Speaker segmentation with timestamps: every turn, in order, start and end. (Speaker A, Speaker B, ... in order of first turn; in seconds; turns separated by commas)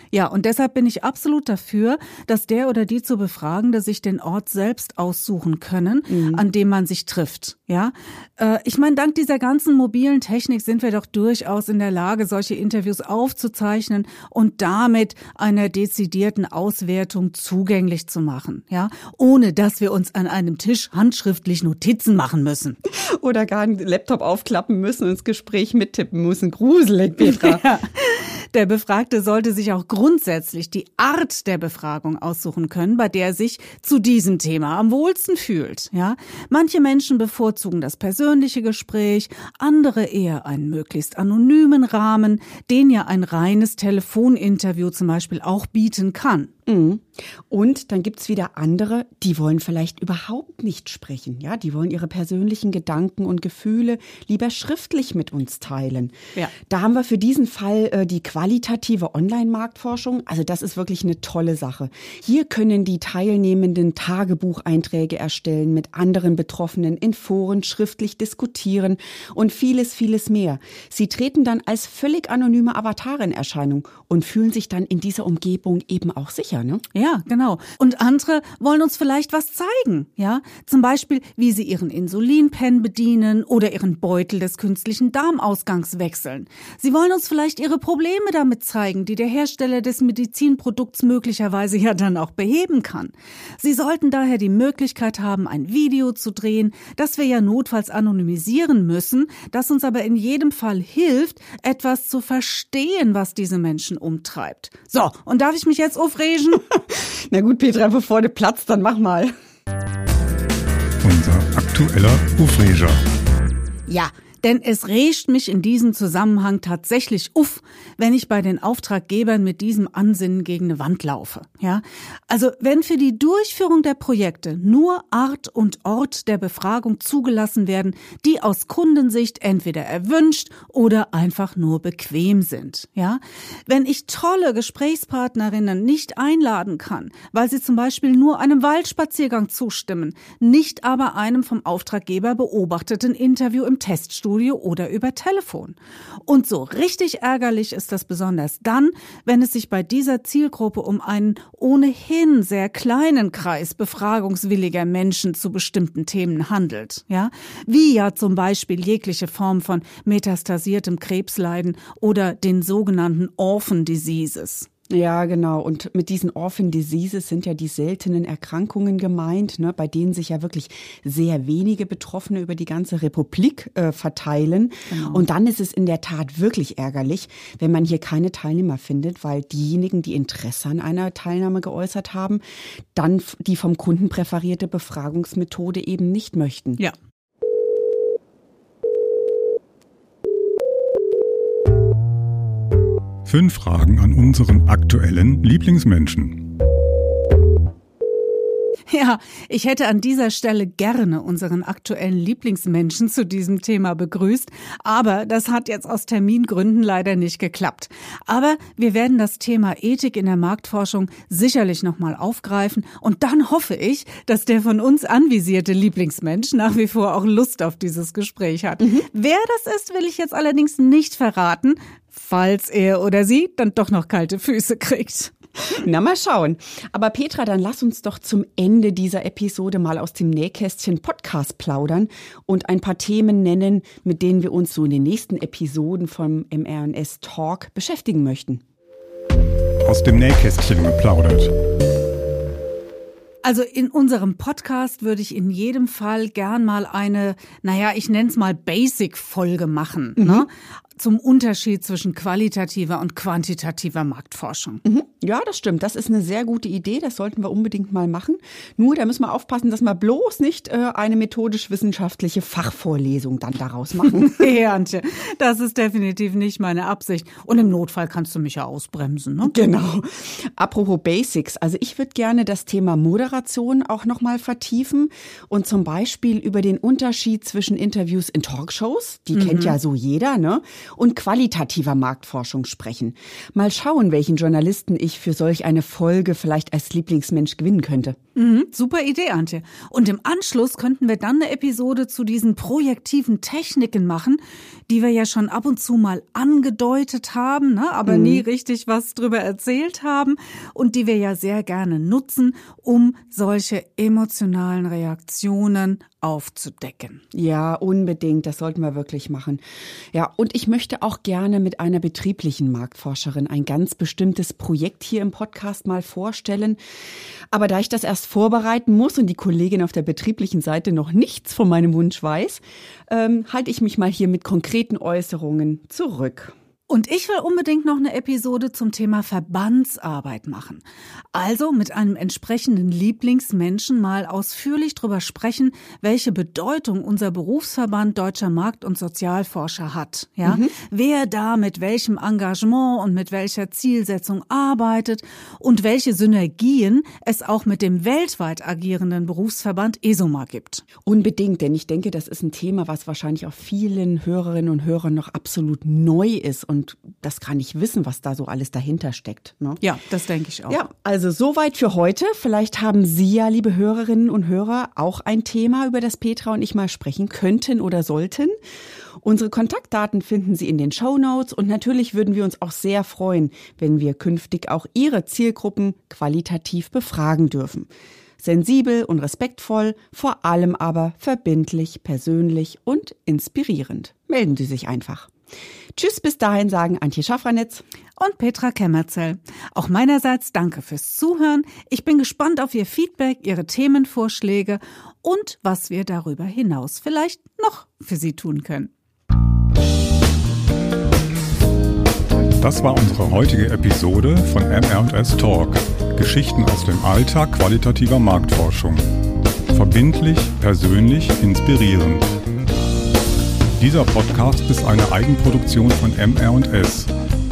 Speaker A: 0.1-22.8, Speaker B: 6.1-6.4, Speaker B: 22.9-27.6, Speaker A: 27.2-46.5, Speaker B: 46.7-76.8, Speaker A: 76.9-106.6, Speaker B: 106.6-109.3, Speaker C: 111.0-113.0, Speaker A: 113.9-164.7, Speaker B: 164.9-182.4, Speaker A: 174.9-175.2, Speaker B: 182.9-186.8, Speaker C: 193.2-196.4, Speaker A: 198.9-225.3, Speaker B: 225.7-238.6, Speaker C: 239.8-241.5, Speaker A: 243.4-254.8, Speaker B: 250.2-250.5, Speaker B: 254.8-264.5, Speaker A: 264.1-269.7, Speaker B: 269.4-288.2, Speaker A: 279.3-279.8, Speaker A: 288.4-307.2, Speaker B: 298.1-298.4, Speaker B: 307.3-309.6, Speaker B: 310.1-316.8, Speaker B: 317.5-326.5, Speaker A: 326.9-330.8, Speaker A: 331.3-350.8, Speaker B: 340.4-340.7, Speaker B: 351.0-359.8, Speaker A: 359.8-360.8, Speaker B: 360.7-368.5, Speaker B: 369.2-377.9, Speaker B: 378.4-385.3, Speaker B: 385.9-387.8, Speaker A: 388.2-398.9, Speaker C: 402.6-409.0, Speaker C: 409.7-412.3, Speaker C: 413.8-417.1